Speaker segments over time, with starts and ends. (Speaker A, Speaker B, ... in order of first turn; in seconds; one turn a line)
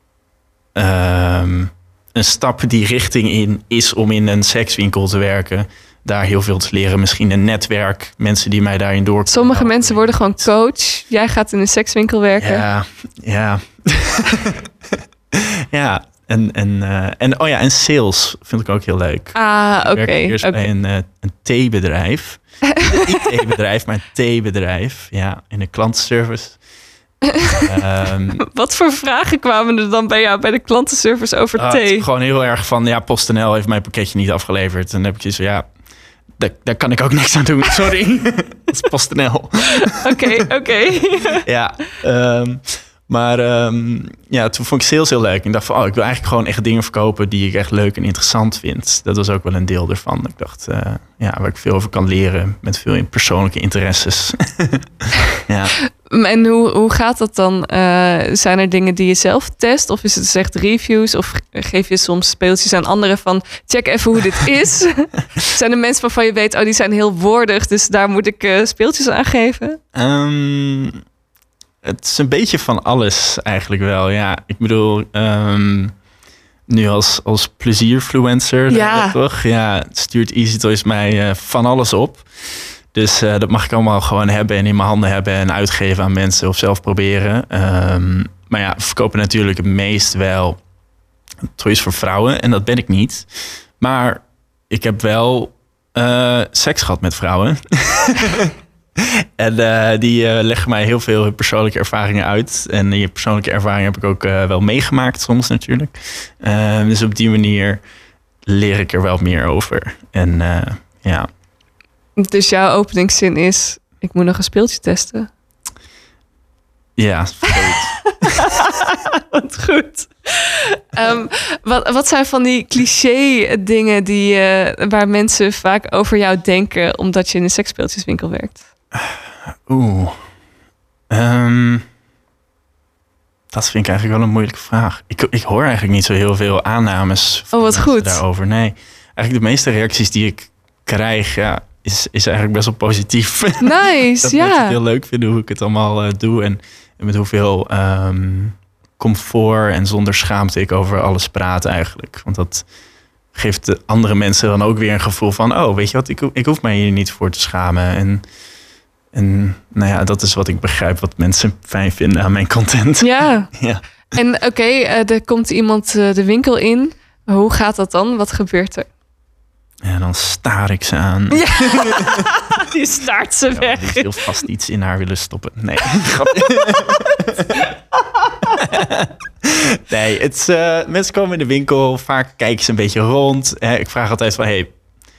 Speaker A: 0.7-10.5
Speaker B: 9.3-12.6
Speaker A: 12.4-26.6
Speaker B: 19.3-20.7
Speaker B: 22.8-23.2
Speaker B: 27.3-27.6
Speaker A: 27.6-28.4
Speaker B: 28.4-32.0
Speaker A: 31.6-35.7
Speaker A: 36.4-40.4
Speaker B: 39.8-41.4
Speaker A: 41.4-55.7
Speaker B: 56.1-69.8
Speaker A: 69.9-71.0
Speaker A: 71.8-75.9
Speaker A: 76.7-90.6
Speaker B: 78.7-79.2
Speaker A: 91.5-107.8
Speaker A: 108.5-111.3
Speaker B: 112.2-115.3
Speaker A: 117.0-118.5
Speaker B: 118.2-128.6
Speaker A: 128.9-130.2
Speaker A: 131.1-131.8
Speaker A: 133.5-152.7
Speaker B: 137.5-138.2
Speaker B: 143.6-144.8
Speaker A: 153.3-158.2
Speaker A: 159.1-163.8
Speaker B: 163.0-163.6
Speaker B: 164.1-168.9
Speaker A: 169.8-172.2
Speaker B: 171.3-174.2
Speaker A: 173.5-177.6
Speaker B: 176.3-177.6
Speaker B: 178.2-178.6
Speaker A: 178.6-184.7